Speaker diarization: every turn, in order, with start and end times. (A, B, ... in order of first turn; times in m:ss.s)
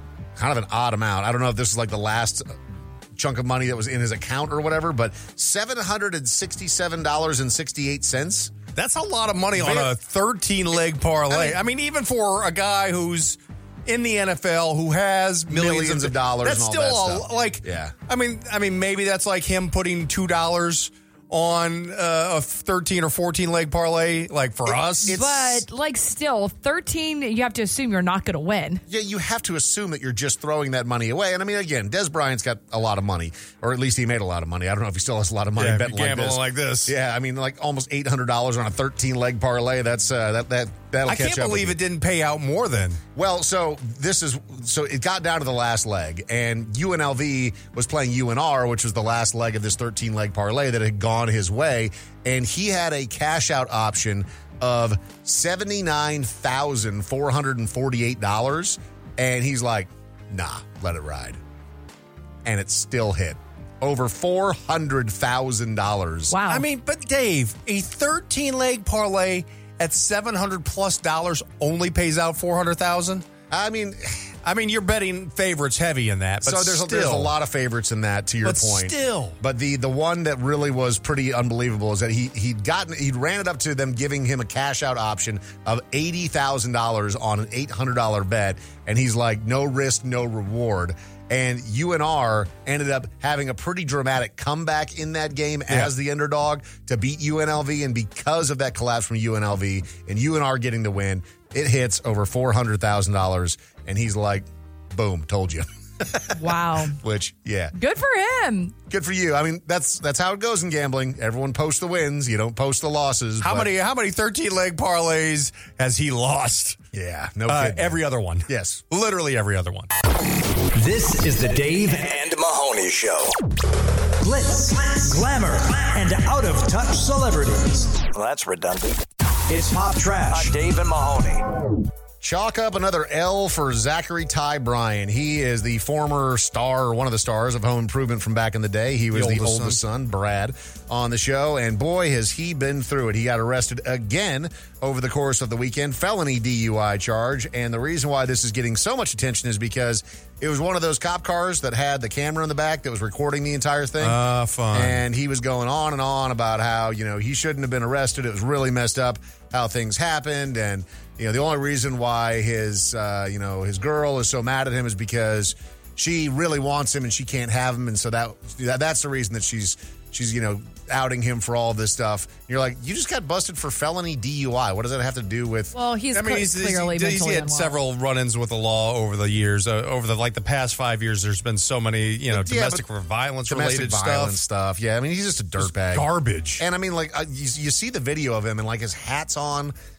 0:00.4-0:02.6 A
0:03.1-0:08.5 A
0:08.7-0:25.2 B
0:09.5-0:09.9 A
0:11.3-0:11.6 A
0:15.5-0:17.9 A
0:24.6-0:25.6 A
0:25.1-0:28.8 C
0:28.9-0:41.8 A
0:35.6-0:36.9 B
0:41.0-0:43.0 B
0:43.1-1:01.4 A
1:02.4-1:06.4 A
1:06.3-1:06.6 C
1:06.5-1:13.2 B
1:13.5-1:14.3 A
1:14.4-1:17.3 B
1:16.4-1:47.7 A
1:18.4-1:19.4 B
1:46.3-1:47.0 C
1:47.7-1:48.7 C
1:48.9-1:53.7 A
1:53.4-1:56.8 B
1:56.9-1:58.8 A
1:57.5-1:59.9 B
2:00.7-2:03.3 D
2:04.2-2:11.4 D
2:12.2-2:34.2 A
2:19.1-2:19.8 B
2:34.0-2:35.0 B
2:34.7-2:55.7 A
2:55.7-2:57.8 C
2:56.1-3:04.4 B
3:02.3-3:02.8 A
3:03.5-3:06.0 A
3:05.6-3:06.6 B
3:06.6-3:09.7 A